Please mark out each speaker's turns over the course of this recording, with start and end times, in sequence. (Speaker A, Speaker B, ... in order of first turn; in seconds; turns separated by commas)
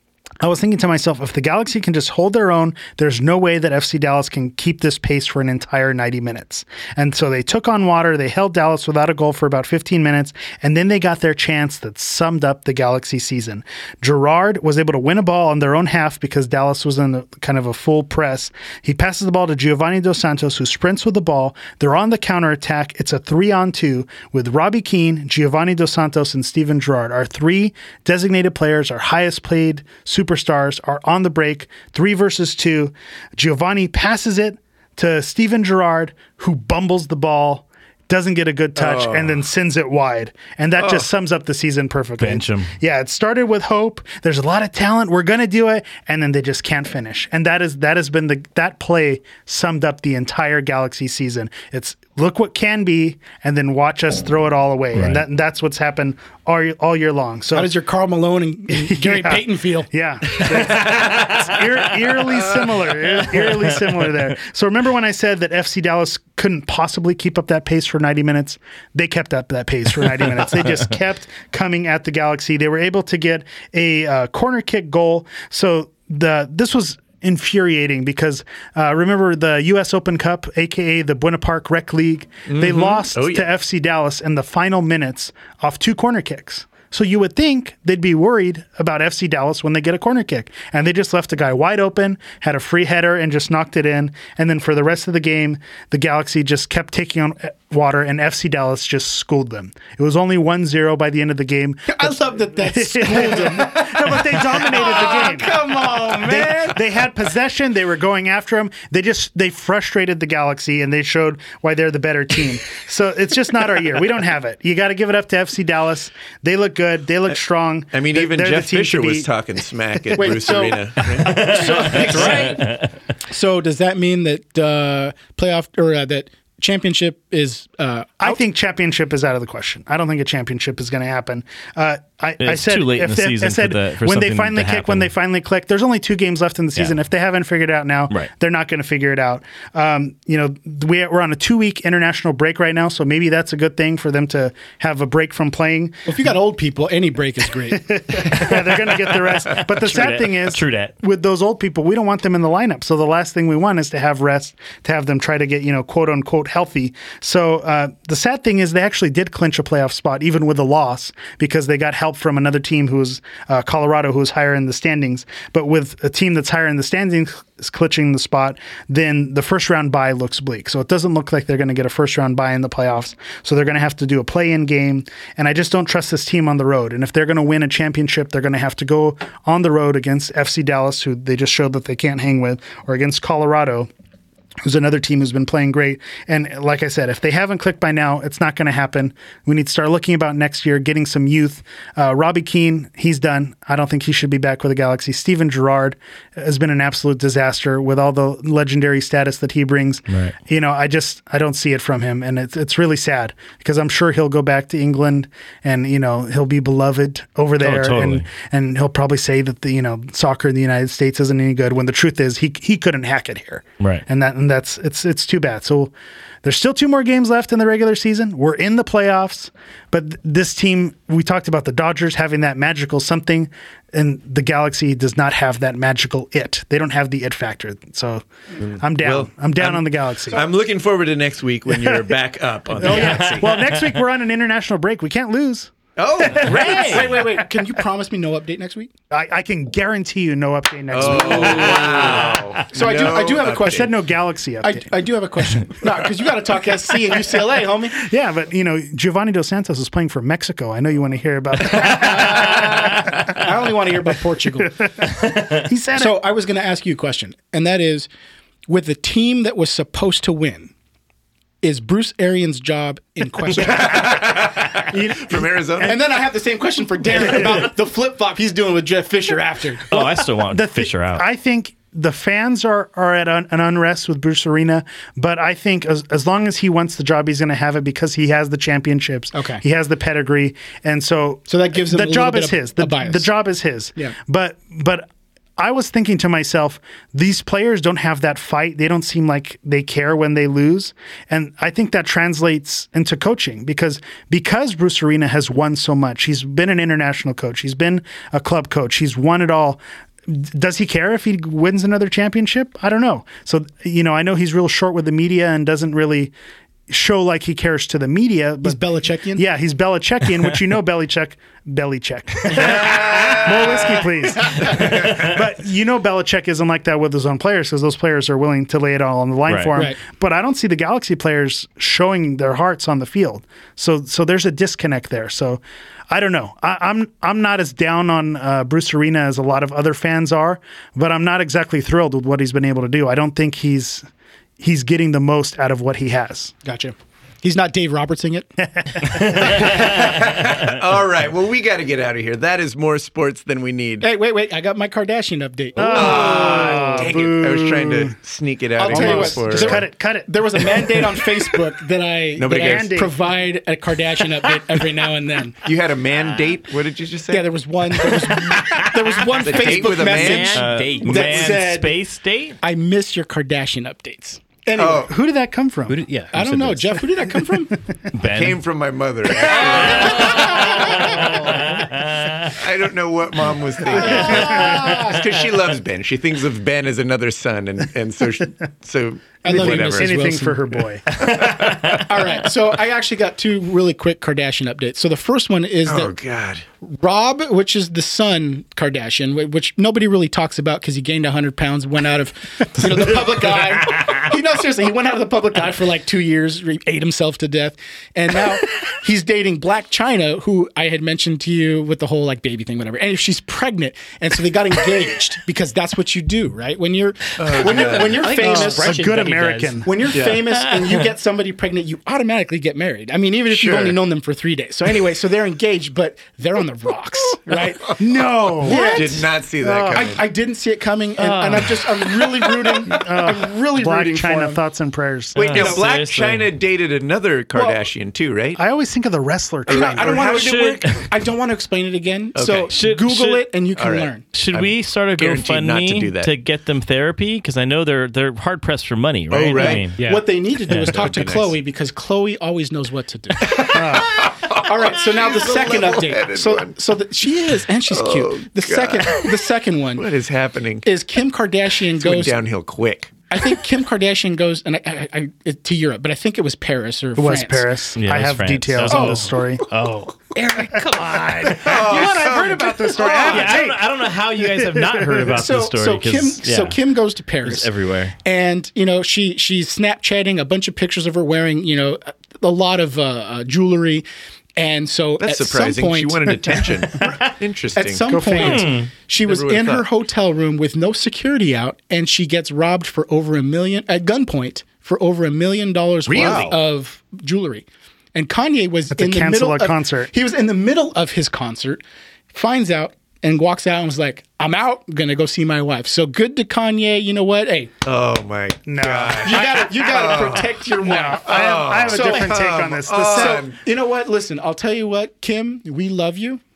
Speaker A: 0.4-57.7, Speaker B: 38.8-39.4, Speaker B: 40.8-41.1, Speaker C: 42.2-42.7, Speaker C: 54.9-55.2, Speaker D: 57.5-59.9, Speaker A: 58.8-102.0, Speaker C: 60.5-61.6, Speaker B: 62.3-62.7, Speaker C: 63.3-64.1, Speaker B: 82.5-83.5, Speaker D: 101.9-107.0, Speaker A: 102.6-119.3, Speaker B: 104.8-105.3, Speaker B: 117.9-122.5, Speaker A: 120.0-120.7, Speaker D: 120.2-128.4, Speaker C: 121.0-122.9, Speaker E: 122.0-122.5, Speaker A: 128.2-146.0, Speaker C: 132.4-135.1, Speaker D: 146.1-148.3, Speaker A: 147.8-183.9, Speaker C: 149.6-150.9, Speaker A: 184.6-215.9, Speaker C: 200.1-200.4, Speaker C: 207.6-208.3, Speaker C: 213.8-214.1, Speaker A: 216.4-230.5, Speaker B: 229.0-233.8, Speaker A: 231.7-232.1, Speaker A: 232.8-237.4, Speaker B: 236.0-237.0, Speaker C: 236.4-237.2, Speaker D: 236.5-238.9, Speaker A: 239.1-242.4, Speaker B: 240.9-243.9, Speaker D: 241.6-242.1, Speaker C: 241.7-242.5, Speaker D: 242.7-243.9, Speaker A: 243.1-244.9, Speaker D: 244.6-248.0, Speaker A: 248.0-253.4, Speaker D: 251.7-254.7, Speaker A: 254.7-256.2, Speaker D: 255.9-258.1, Speaker D: 258.7-260.7, Speaker D: 261.6-264.3, Speaker B: 263.6-266.0, Speaker A: 264.9-266.0, Speaker D: 265.8-269.9, Speaker A: 267.3-267.6, Speaker C: 269.9-271.2, Speaker A: 269.9-285.1, Speaker D: 279.3-279.6, Speaker D: 281.5-283.3, Speaker A: 285.6-306.3, Speaker A: 306.9-308.8, Speaker D: 308.6-309.4, Speaker A: 309.4-334.1, Speaker B: 312.5-315.3, Speaker C: 319.5-319.8, Speaker A: 334.6-336.6, Speaker D: 336.6-338.5, Speaker A: 338.8-339.7, Speaker B: 339.4-344.1, Speaker D: 344.0-347.1, Speaker A: 345.8-348.1, Speaker B: 345.9-349.9, Speaker D: 348.8-355.6, Speaker A: 348.8-351.2, Speaker B: 352.4-353.0, Speaker A: 352.5-353.1, Speaker B: 355.6-357.5, Speaker D: 357.3-362.0, Speaker B: 358.1-360.7, Speaker E: 359.9-361.6, Speaker C: 360.5-362.6, Speaker D: 362.6-365.1, Speaker B: 364.8-365.1, Speaker A: 364.9-366.0, Speaker E: 365.9-367.1, Speaker D: 366.3-367.8, Speaker C: 368.1-368.6, Speaker B: 368.2-371.6, Speaker C: 369.8-372.4, Speaker B: 372.4-380.3, Speaker D: 374.0-375.0, Speaker A: 374.1-375.1, Speaker C: 374.5-375.1, Speaker D: 379.4-380.6, Speaker A: 379.4-381.2, Speaker B: 381.3-382.1, Speaker D: 381.9-386.1, Speaker B: 385.9-386.6, Speaker D: 386.9-409.1, Speaker B: 407.4-408.2, Speaker E: 407.9-409.9, Speaker A: 408.4-410.0, Speaker D: 409.8-418.0, Speaker B: 410.1-410.5, Speaker C: 410.7-411.0, Speaker B: 413.5-414.0, Speaker A: 418.0-420.2, Speaker D: 418.6-419.3, Speaker B: 418.6-420.2, Speaker D: 419.9-424.6, Speaker C: 421.2-422.2, Speaker A: 422.8-425.8, Speaker C: 425.4-426.5, Speaker B: 425.4-428.6, Speaker A: 428.6-430.5, Speaker D: 429.7-434.3, Speaker B: 429.7-430.5, Speaker C: 430.3-431.1, Speaker B: 432.4-432.7, Speaker C: 432.7-433.5, Speaker B: 433.8-436.3, Speaker C: 434.3-440.0, Speaker B: 439.3-439.9, Speaker D: 439.6-450.1, Speaker C: 440.7-441.0, Speaker B: 440.9-441.6, Speaker B: 443.4-446.8, Speaker A: 443.6-444.2, Speaker B: 447.9-449.3, Speaker B: 450.0-450.9, Speaker D: 450.8-452.4, Speaker B: 452.0-453.2, Speaker D: 453.3-457.7, Speaker A: 457.2-459.7, Speaker C: 458.0-460.2, Speaker D: 458.9-459.2, Speaker A: 460.6-463.9, Speaker D: 460.6-460.9, Speaker B: 461.6-463.6, Speaker C: 462.9-466.8, Speaker A: 464.4-465.3, Speaker D: 465.3-467.7, Speaker C: 467.4-468.2, Speaker D: 468.2-474.1, Speaker D: 474.6-477.2, Speaker B: 475.2-478.2, Speaker D: 477.8-497.7, Speaker A: 478.1-478.7, Speaker C: 478.4-478.9, Speaker B: 479.2-479.9, Speaker B: 486.1-486.6, Speaker A: 488.9-490.1, Speaker B: 497.8-503.6, Speaker A: 498.7-499.6, Speaker D: 499.2-502.5, Speaker A: 500.8-503.4, Speaker D: 503.1-506.4